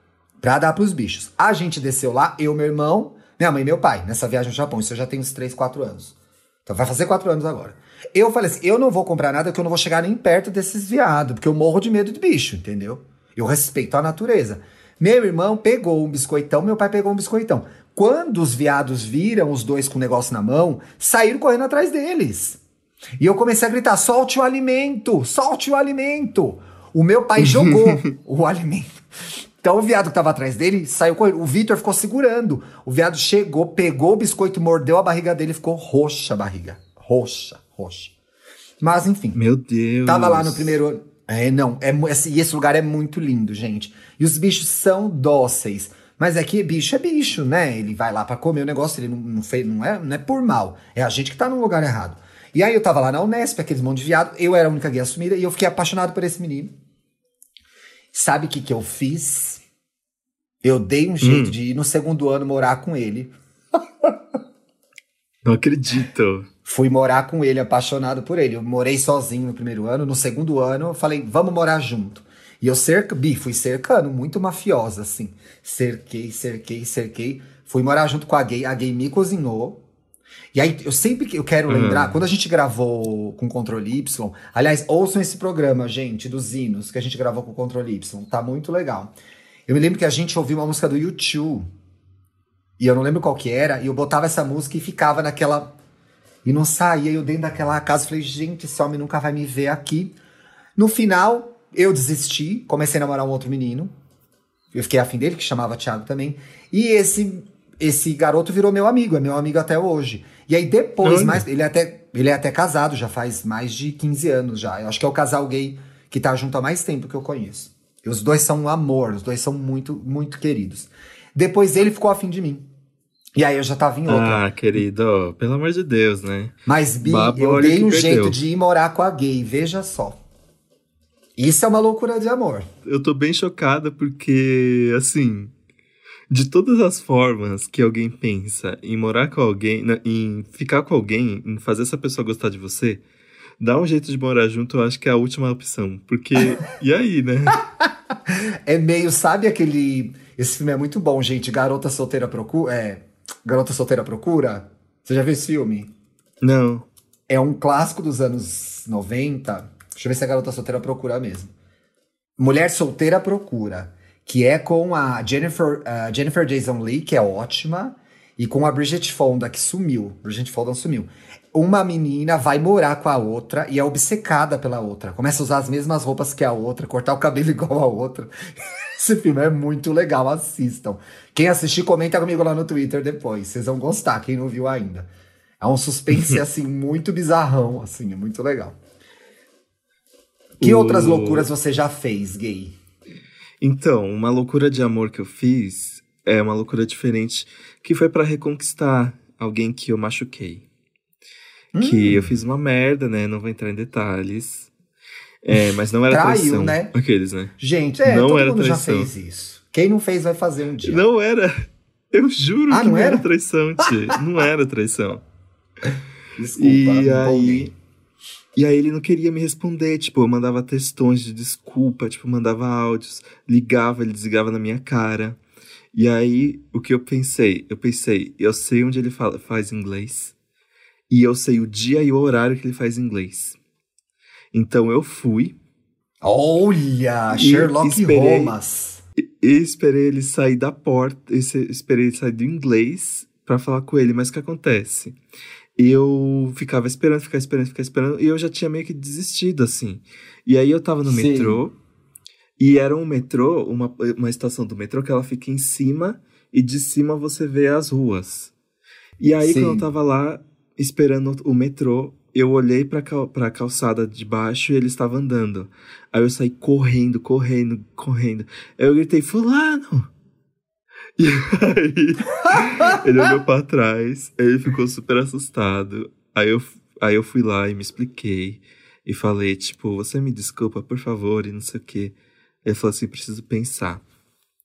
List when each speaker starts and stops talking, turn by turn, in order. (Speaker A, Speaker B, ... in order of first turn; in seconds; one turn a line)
Speaker A: 0.4-6.1
Speaker A: 6.7-22.6
Speaker A: 23.2-29.0
Speaker B: 27.6-28.1
Speaker A: 29.6-38.1
Speaker A: 38.8-39.4
Speaker B: 39.3-40.8
Speaker A: 40.0-56.8
Speaker A: 58.1-59.6
Speaker A: 60.6-63.3
Speaker B: 61.2-61.6
Speaker B: 65.4-66.5
Speaker A: 66.7-79.8
Speaker A: 80.5-89.1
Speaker B: 81.7-82.2
Speaker A: 89.7-91.7
Speaker A: 92.8-95.7
Speaker A: 96.4-100.2
Speaker A: 100.8-103.9
Speaker A: 104.7-122.7
Speaker B: 111.0-111.4
Speaker A: 123.3-124.4
Speaker B: 124.1-128.4
Speaker A: 126.7-130.2
Speaker A: 131.4-132.7
Speaker B: 132.8-135.5
Speaker B: 136.3-143.0
Speaker B: 143.6-147.6
Speaker A: 148.3-155.9
Speaker B: 156.4-156.9
Speaker A: 157.3-161.5
Speaker A: 162.4-188.8
Speaker B: 190.6-191.5
Speaker A: 190.6-192.8
Speaker B: 193.6-200.7
Speaker A: 201.7-202.3
Speaker B: 201.8-204.7
Speaker B: 205.4-207.5
Speaker A: 206.1-206.9
Speaker A: 207.6-211.0
Speaker B: 208.0-209.1
Speaker B: 210.8-215.2
Speaker A: 212.7-213.2
Speaker A: 216.3-217.7
Speaker B: 216.6-217.7
Speaker B: 218.6-225.4
Speaker B: 225.9-230.3
Speaker B: 231.1-233.6
Speaker B: 234.5-235.6
Speaker A: 236.2-239.0
Speaker B: 237.3-238.5
Speaker B: 239.2-245.2
Speaker B: 245.8-251.7
Speaker A: 251.1-251.6
Speaker B: 252.6-258.5
Speaker B: 259.2-270.1
Speaker A: 259.4-259.9
Speaker B: 271.2-284.0
Speaker A: 272.5-272.9